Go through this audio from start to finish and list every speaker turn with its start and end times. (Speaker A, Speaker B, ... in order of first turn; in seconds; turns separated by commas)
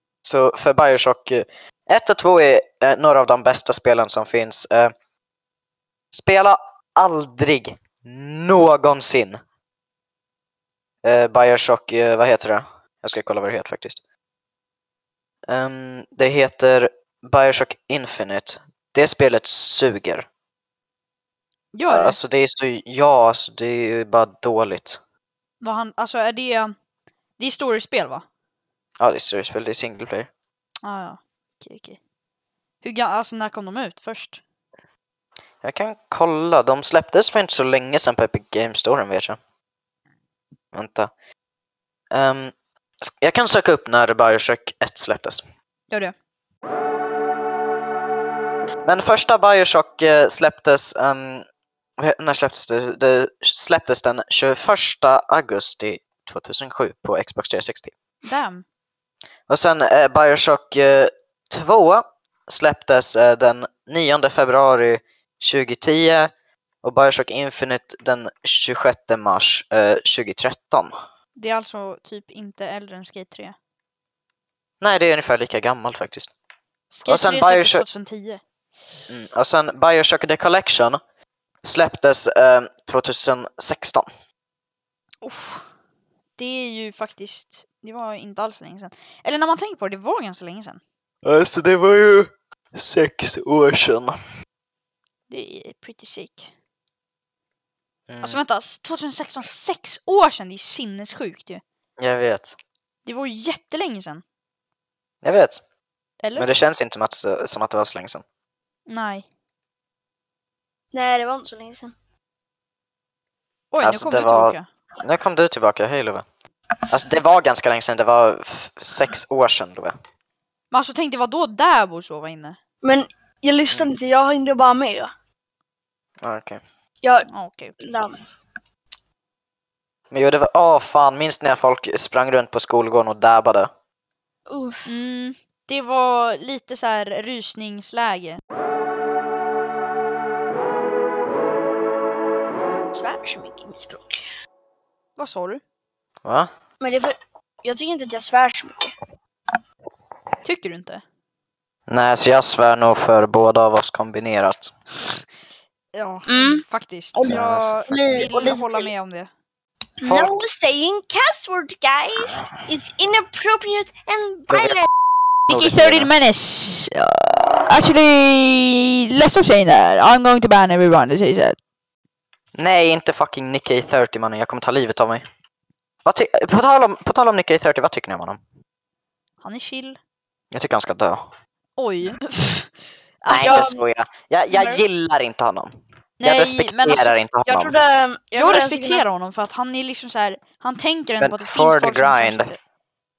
Speaker A: 0.2-4.9, Speaker A: 6.1-9.4, Speaker A: 11.0-14.0, Speaker A: 15.5-20.3, Speaker B: 21.7-22.2, Speaker A: 21.9-25.0, Speaker B: 25.6-26.8, Speaker B: 27.4-28.2, Speaker A: 29.0-30.3, Speaker B: 30.8-32.0, Speaker B: 32.8-34.4, Speaker A: 35.6-39.4, Speaker A: 40.7-41.1, Speaker A: 42.1-45.4, Speaker A: 48.9-51.5, Speaker A: 52.0-57.9, Speaker B: 58.2-58.6, Speaker A: 59.5-66.3, Speaker A: 66.8-70.9, Speaker B: 71.4-73.5, Speaker A: 74.8-76.3, Speaker B: 76.9-78.4, Speaker A: 77.1-77.8, Speaker A: 79.1-81.0, Speaker A: 81.6-84.1, Speaker B: 85.2-85.7, Speaker B: 86.4-90.8, Speaker A: 91.2-94.2, Speaker B: 95.3-96.5, Speaker A: 98.1-98.4, Speaker B: 98.2-101.6, Speaker A: 102.0-102.5, Speaker B: 103.0-104.2, Speaker A: 105.2-105.6, Speaker A: 106.4-108.2, Speaker B: 108.9-109.2, Speaker C: 110.9-111.9, Speaker B: 113.7-114.7, Speaker A: 113.8-116.2, Speaker A: 116.9-120.0, Speaker B: 120.7-122.6, Speaker C: 122.8-125.1, Speaker A: 126.2-126.6, Speaker B: 127.3-127.7, Speaker C: 127.8-128.2, Speaker A: 130.1-133.7, Speaker C: 134.5-134.9, Speaker B: 134.8-138.4, Speaker C: 142.9-144.2, Speaker B: 145.2-145.6, Speaker A: 146.2-146.5, Speaker C: 146.8-148.9, Speaker B: 150.4-151.0, Speaker A: 151.9-154.7, Speaker B: 155.9-159.3, Speaker C: 156.3-156.6, Speaker C: 157.2-158.9, Speaker A: 157.3-157.7, Speaker C: 160.0-164.9, Speaker A: 160.0-160.3, Speaker A: 164.5-164.8, Speaker A: 165.5-166.1, Speaker B: 165.5-171.6, Speaker A: 172.6-175.2, Speaker A: 176.1-178.4, Speaker B: 179.4-180.0, Speaker A: 180.5-181.3, Speaker B: 181.8-182.7, Speaker B: 183.2-183.7, Speaker A: 183.3-187.8, Speaker C: 183.4-183.8, Speaker B: 184.5-184.8, Speaker B: 186.2-187.2, Speaker C: 187.5-189.1, Speaker B: 188.4-192.6, Speaker A: 191.2-192.5